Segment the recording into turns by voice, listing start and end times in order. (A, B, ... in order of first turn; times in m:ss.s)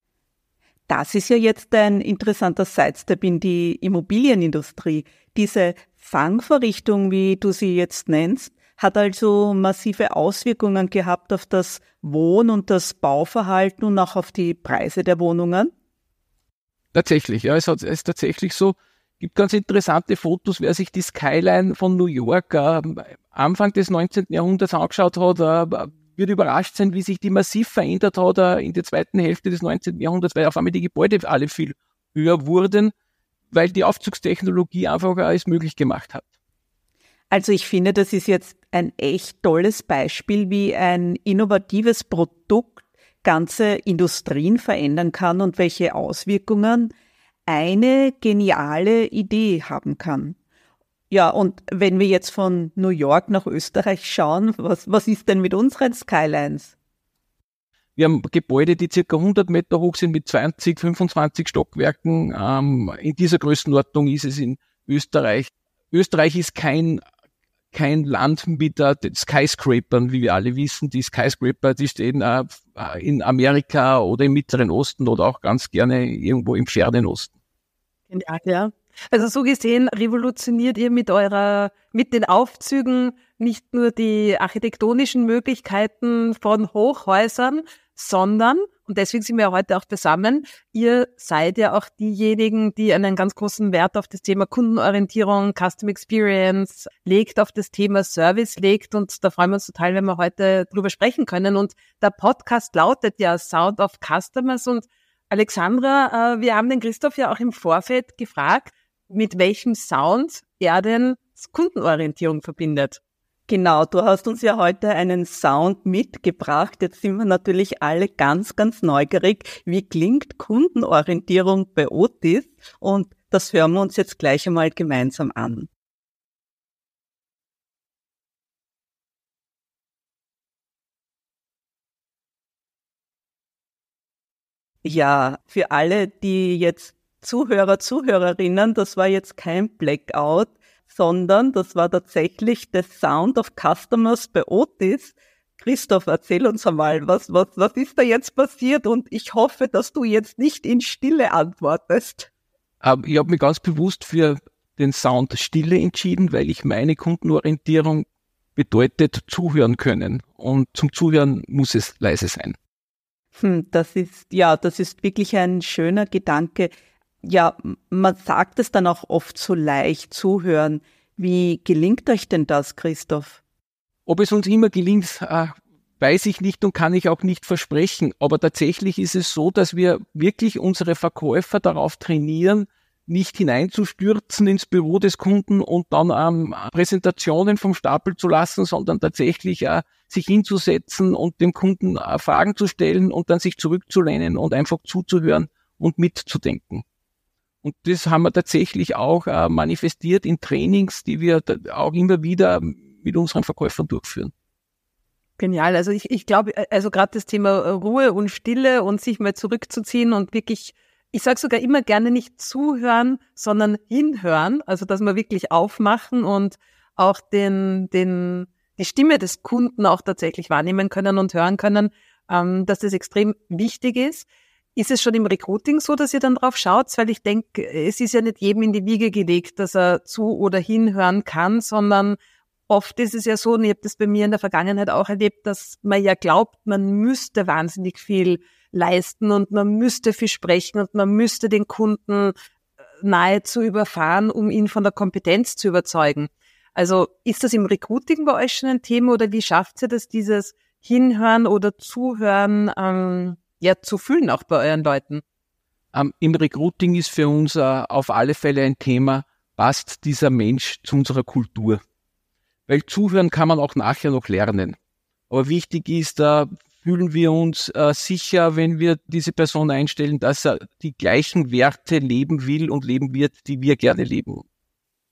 0:00.9-0:15.7 A
0:16.9-0:32.9 B
0:33.5-0:36.2 B
0:37.3-0:46.9 A
0:47.5-0:50.4 A
0:51.1-0:56.7 A
0:58.0-1:07.0 B
1:07.7-1:17.3 B
1:18.1-1:53.0 C
1:53.5-2:05.7 A
2:14.8-2:32.3 A
2:32.8-2:38.0 B
2:38.6-2:42.6 B
2:43.3-2:46.7 A
2:47.2-2:53.4 A
2:54.1-3:16.8 B
3:17.6-3:24.3 B
3:25.4-3:52.2 C
3:52.7-4:02.3 C
4:03.0-4:15.2 C
4:15.9-4:21.8 B
4:22.7-4:24.8 B
4:25.3-4:34.4 B